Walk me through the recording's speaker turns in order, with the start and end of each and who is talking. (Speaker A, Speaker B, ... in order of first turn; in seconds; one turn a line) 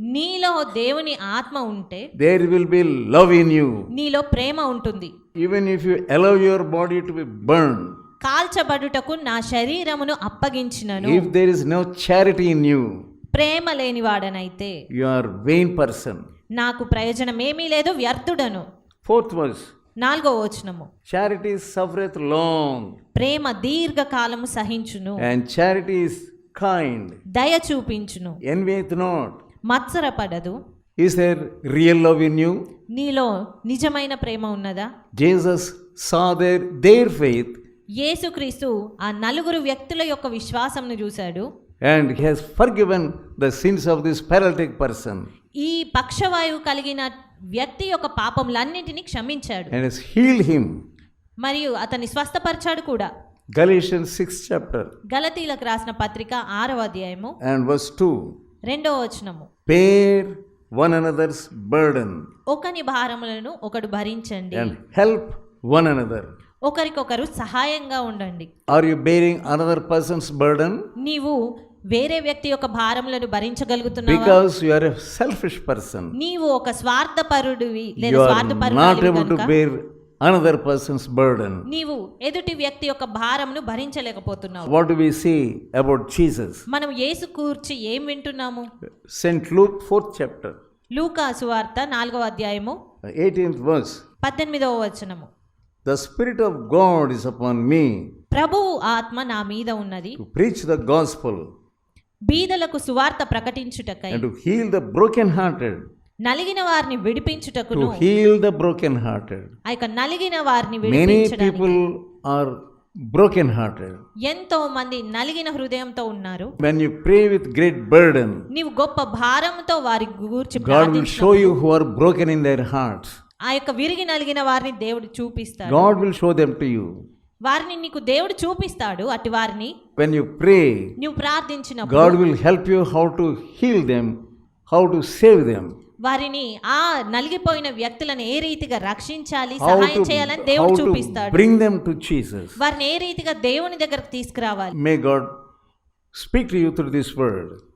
Speaker A: 0.1-2.1
Speaker B: 2.2-3.9
Speaker A: 3.9-5.1
Speaker B: 5.4-8.0
Speaker A: 8.2-11.3
Speaker B: 11.0-12.9
Speaker A: 13.3-14.7
Speaker B: 14.9-16.2
Speaker A: 16.6-18.6
Speaker B: 19.0-19.7
Speaker A: 20.0-20.9
Speaker B: 21.1-22.9
Speaker A: 23.1-25.2
Speaker B: 25.2-27.2
Speaker A: 27.3-28.4
Speaker B: 28.4-29.4
Speaker A: 29.7-30.5
Speaker B: 31.0-32.5
Speaker A: 32.9-34.9
Speaker B: 35.1-37.6
Speaker A: 38.0-41.5
Speaker B: 41.8-45.3
Speaker A: 45.6-49.7
Speaker B: 49.7-50.8
Speaker A: 51.4-53.1
Speaker B: 53.5-54.9
Speaker A: 55.1-57.4
Speaker B: 57.4-58.3
Speaker A: 58.7-59.5
Speaker B: 59.7-62.2
Speaker A: 62.5-64.7
Speaker B: 64.5-66.3
Speaker A: 66.7-68.5
Speaker B: 68.7-70.8
Speaker A: 71.0-71.4
Speaker A: 71.9-74.4
Speaker B: 74.0-76.1
Speaker A: 76.2-79.5
Speaker B: 78.0-81.6
Speaker A: 81.7-84.7
Speaker B: 84.6-86.6
Speaker A: 86.7-88.7
Speaker B: 89.1-90.6
Speaker A: 90.9-92.8
Speaker B: 93.0-94.0
Speaker A: 94.2-95.3
Speaker B: 95.8-98.1
Speaker A: 98.3-100.2
Speaker B: 100.2-101.5
Speaker A: 102.3-104.2
Speaker B: 104.1-105.8
Speaker A: 106.2-108.0
Speaker B: 107.7-109.5
Speaker A: 109.7-111.8
Speaker B: 110.8-112.5
Speaker B: 113.1-114.0
Speaker A: 114.2-116.5
Speaker B: 116.6-118.5
Speaker A: 118.5-121.6
Speaker B: 120.6-123.1
Speaker A: 123.5-125.9
Speaker B: 125.7-126.9
Speaker A: 127.4-129.7
Speaker B: 130.0-130.9
Speaker A: 131.0-132.2
Speaker B: 131.8-134.1
Speaker B: 134.7-135.7
Speaker A: 136.0-141.4
Speaker B: 139.6-142.6
Speaker A: 142.6-144.8
Speaker B: 144.8-145.3
Speaker B: 146.1-147.6